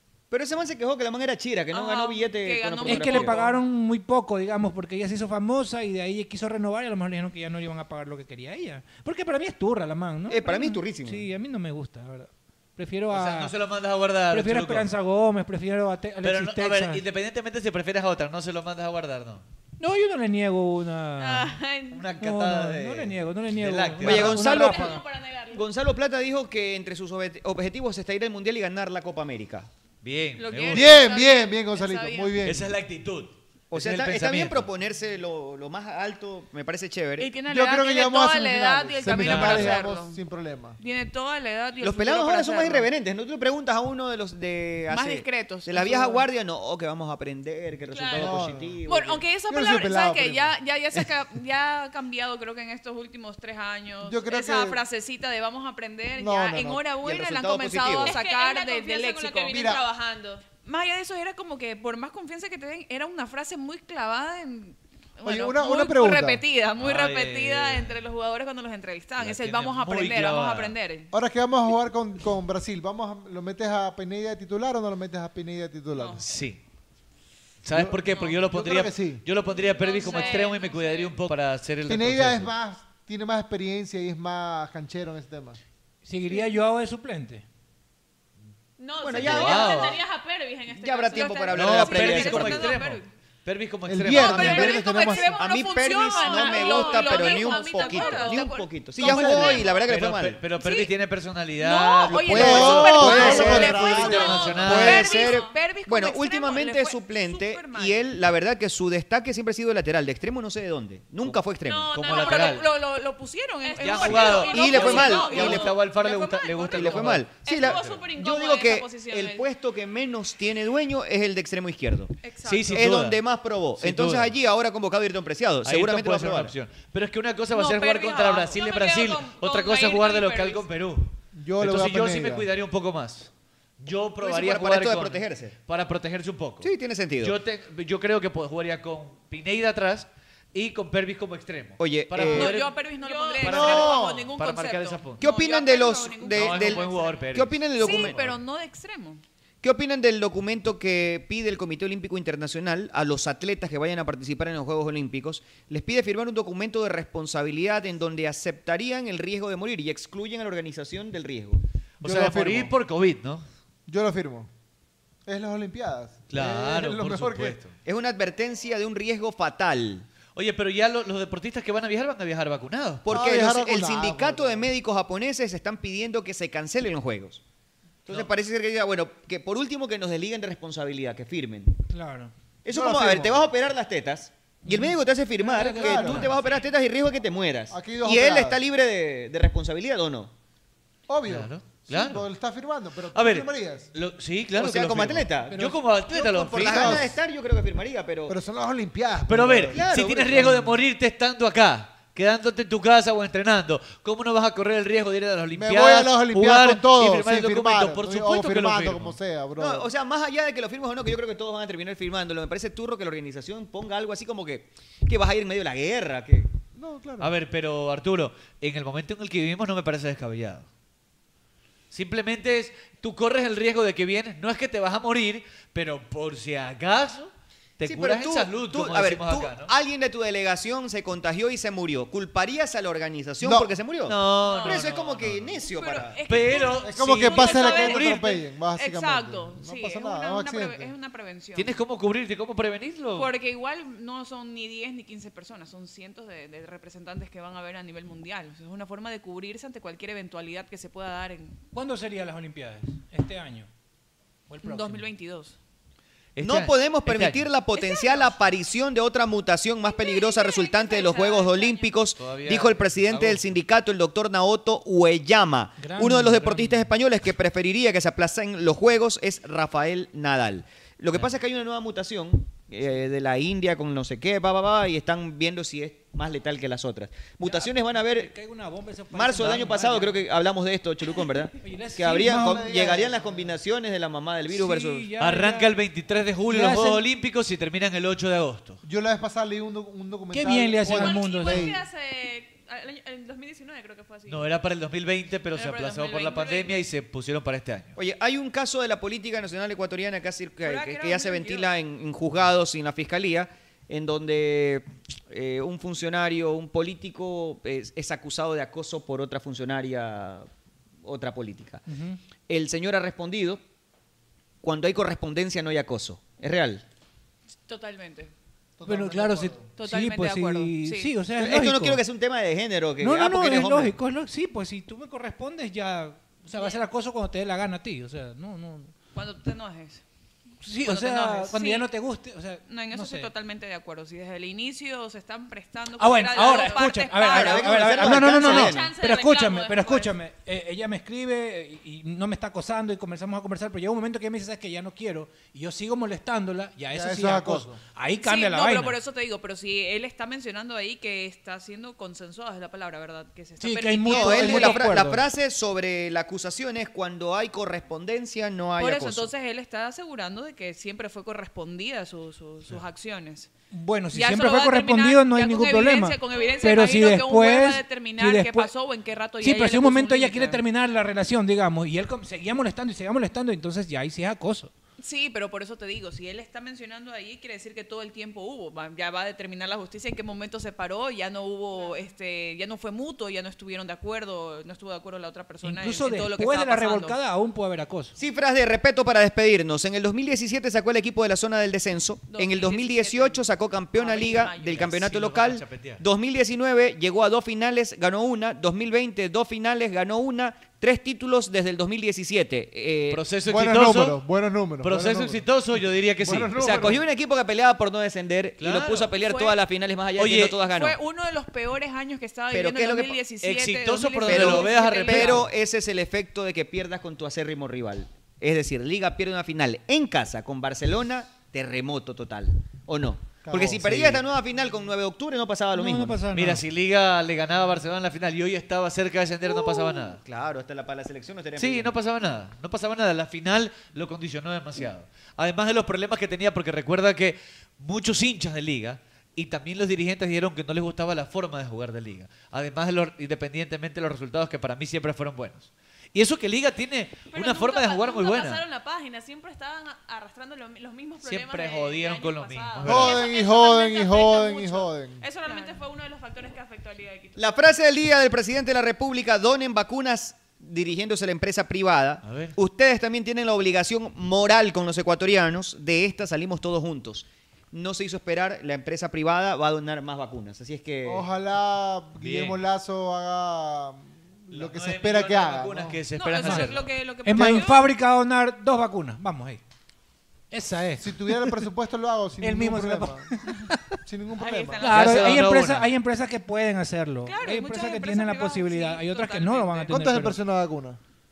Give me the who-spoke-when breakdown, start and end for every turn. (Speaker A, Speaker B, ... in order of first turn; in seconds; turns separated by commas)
Speaker A: 0.3-3.5, Speaker B: 1.7-3.6, Speaker C: 2.8-13.6, Speaker A: 10.3-11.3, Speaker D: 13.1-14.9, Speaker C: 14.3-17.0, Speaker D: 16.2-19.4, Speaker C: 19.8-21.6, Speaker E: 21.2-22.1, Speaker D: 21.9-24.5, Speaker C: 22.2-25.0, Speaker A: 24.0-25.0, Speaker E: 24.3-25.6, Speaker A: 25.5-29.7, Speaker D: 30.0-31.1, Speaker B: 30.4-32.4, Speaker F: 30.7-32.7, Speaker D: 32.4-34.7, Speaker A: 33.7-37.3, Speaker B: 37.2-40.2, Speaker F: 37.5-40.8, Speaker D: 39.1-39.8, Speaker B: 40.8-42.9, Speaker A: 41.8-49.2, Speaker B: 44.9-46.2, Speaker E: 47.9-48.3, Speaker F: 48.1-48.8, Speaker B: 48.9-59.7, Speaker F: 49.5-50.5, Speaker F: 54.0-54.8, Speaker F: 56.1-56.8, Speaker A: 57.0-58.1, Speaker E: 58.0-60.4, Speaker F: 59.5-59.8, Speaker B: 60.6-71.1, Speaker F: 65.2-66.4, Speaker D: 66.8-68.0, Speaker D: 69.2-70.7, Speaker F: 71.1-76.2, Speaker D: 76.2-76.6, Speaker D: 77.6-82.5, Speaker F: 77.7-79.2, Speaker E: 79.4-81.1, Speaker B: 79.8-80.6, Speaker F: 81.8-85.6, Speaker C: 86.0-87.4, Speaker E: 88.8-91.9, Speaker A: 89.0-90.0, Speaker D: 89.1-90.0, Speaker B: 89.3-89.7, Speaker A: 90.7-92.7, Speaker D: 91.5-94.8, Speaker B: 91.5-93.1, Speaker F: 93.9-95.4, Speaker B: 94.0-99.8, Speaker E: 94.8-98.7, Speaker A: 95.3-100.4, Speaker F: 99.0-99.6, Speaker D: 99.0-105.1, Speaker B: 100.5-100.9, Speaker B: 101.6-108.1, Speaker A: 102.1-104.1, Speaker F: 102.2-105.1, Speaker E: 104.0-105.5, Speaker A: 104.7-112.0, Speaker E: 111.7-112.7, Speaker D: 111.9-112.7, Speaker B: 112.0-117.7, Speaker E: 113.6-116.7, Speaker D: 113.8-118.0, Speaker A: 114.4-115.8, Speaker A: 116.7-122.1, Speaker E: 117.4-119.5, Speaker B: 122.2-122.8, Speaker D: 122.4-123.2, Speaker A: 122.7-126.5, Speaker D: 123.8-124.3, Speaker D: 125.6-142.8, Speaker B: 127.5-130.6, Speaker E: 128.5-129.1, Speaker F: 131.3-132.5, Speaker A: 134.2-135.5, Speaker A: 136.6-137.3, Speaker A: 141.8-142.5, Speaker B: 142.3-149.2, Speaker E: 142.9-143.6, Speaker D: 143.4-145.2, Speaker F: 143.4-144.3, Speaker A: 145.2-148.2, Speaker D: 146.3-148.4, Speaker A: 149.6-161.6, Speaker D: 162.0-163.4, Speaker F: 162.0-162.7, Speaker F: 163.9-164.5, Speaker F: 165.2-167.6, Speaker D: 166.3-167.8, Speaker A: 167.8-170.1, Speaker D: 170.3-173.1, Speaker A: 173.0-177.4, Speaker F: 173.1-174.7, Speaker A: 178.1-181.7, Speaker C: 181.9-182.3, Speaker A: 182.6-190.3, Speaker F: 182.7-183.5, Speaker C: 184.6-186.3, Speaker F: 185.7-186.3, Speaker D: 186.0-186.5, Speaker F: 187.7-188.6, Speaker F: 191.1-193.9, Speaker D: 191.2-192.3, Speaker D: 193.1-197.1, Speaker A: 194.5-198.4, Speaker F: 196.5-197.1, Speaker F: 198.3-199.8, Speaker D: 199.3-209.2, Speaker A: 199.7-200.5, Speaker F: 200.3-200.8, Speaker F: 205.5-209.9, Speaker A: 209.6-216.5, Speaker F: 216.8-217.3, Speaker D: 217.2-220.7, Speaker D: 221.9-229.7, Speaker A: 227.8-236.2, Speaker F: 233.4-233.8, Speaker D: 234.0-235.6, Speaker B: 234.4-234.9, Speaker B: 235.6-238.1, Speaker D: 236.3-238.4, Speaker F: 236.8-240.9, Speaker B: 238.7-241.8, Speaker D: 241.6-243.3, Speaker B: 243.1-251.6, Speaker C: 251.7-253.7, Speaker C: 254.5-255.1, Speaker B: 254.6-255.5, Speaker D: 256.3-257.5, Speaker A: 256.4-278.3, Speaker B: 257.8-258.4, Speaker B: 259.9-261.9, Speaker D: 262.1-263.6, Speaker C: 265.8-266.9, Speaker C: 277.4-280.2, Speaker A: 279.1-285.1, Speaker C: 281.6-282.7, Speaker F: 282.1-283.6, Speaker C: 284.5-285.8, Speaker D: 285.2-288.8, Speaker C: 286.5-287.0, Speaker F: 288.8-291.8, Speaker C: 290.3-291.8, Speaker E: 290.9-294.4, Speaker B: 291.0-291.8, Speaker D: 294.3-297.9, Speaker E: 295.6-296.6, Speaker B: 295.8-296.7, Speaker A: 297.9-310.5, Speaker B: 300.6-301.7, Speaker A: 311.0-311.8, Speaker C: 311.9-312.2, Speaker A: 312.5-313.6, Speaker A: 314.6-316.8, Speaker B: 317.6-318.3, Speaker F: 318.8-319.7, Speaker C: 318.9-322.0, Speaker B: 319.7-321.2, Speaker A: 321.4-323.9, Speaker C: 323.0-328.9, Speaker B: 326.6-326.8, Speaker B: 329.1-330.0, Speaker C: 330.6-333.3, Speaker B: 330.8-331.9, Speaker B: 332.6-338.5, Speaker C: 336.0-349.0, Speaker E: 336.2-336.8, Speaker A: 337.3-338.9, Speaker E: 338.4-340.1, Speaker F: 346.9-347.8, Speaker B: 348.2-354.9, Speaker C: 353.6-355.2, Speaker A: 354.0-359.3, Speaker B: 358.8-363.5, Speaker C: 363.7-368.7, Speaker B: 364.1-370.6, Speaker C: 369.4-374.7, Speaker B: 375.0-387.2, Speaker E: 381.7-382.1, Speaker C: 385.6-388.1, Speaker A: 388.1-403.2, Speaker B: 392.3-394.9, Speaker D: 394.7-396.0, Speaker D: 403.1-404.2, Speaker F: 403.4-407.0, Speaker D: 404.8-407.0, Speaker A: 406.6-411.0, Speaker D: 408.6-409.1, Speaker B: 409.3-409.5, Speaker D: 410.1-410.6, Speaker B: 410.7-415.4, Speaker A: 412.5-413.2, Speaker D: 413.4-415.5, Speaker A: 414.2-426.2, Speaker F: 423.4-424.3, Speaker C: 425.7-426.6, Speaker D: 426.3-430.2, Speaker A: 430.2-431.9, Speaker D: 431.6-448.6, Speaker E: 447.3-457.4, Speaker D: 451.2-453.2, Speaker F: 452.8-455.2, Speaker B: 452.9-453.6, Speaker B: 455.4-455.8, Speaker A: 457.4-471.3, Speaker D: 462.2-462.5, Speaker F: 471.0-476.0, Speaker D: 472.2-472.6, Speaker D: 474.5-476.9, Speaker B: 476.1-477.9, Speaker C: 476.4-476.7, Speaker C: 477.2-479.6, Speaker C: 480.5-481.6, Speaker F: 481.0-483.3, Speaker C: 482.4-484.0, Speaker F: 484.0-485.3, Speaker B: 484.4-485.5, Speaker C: 484.8-490.4, Speaker D: 484.9-485.9, Speaker B: 487.2-490.0, Speaker F: 489.9-491.0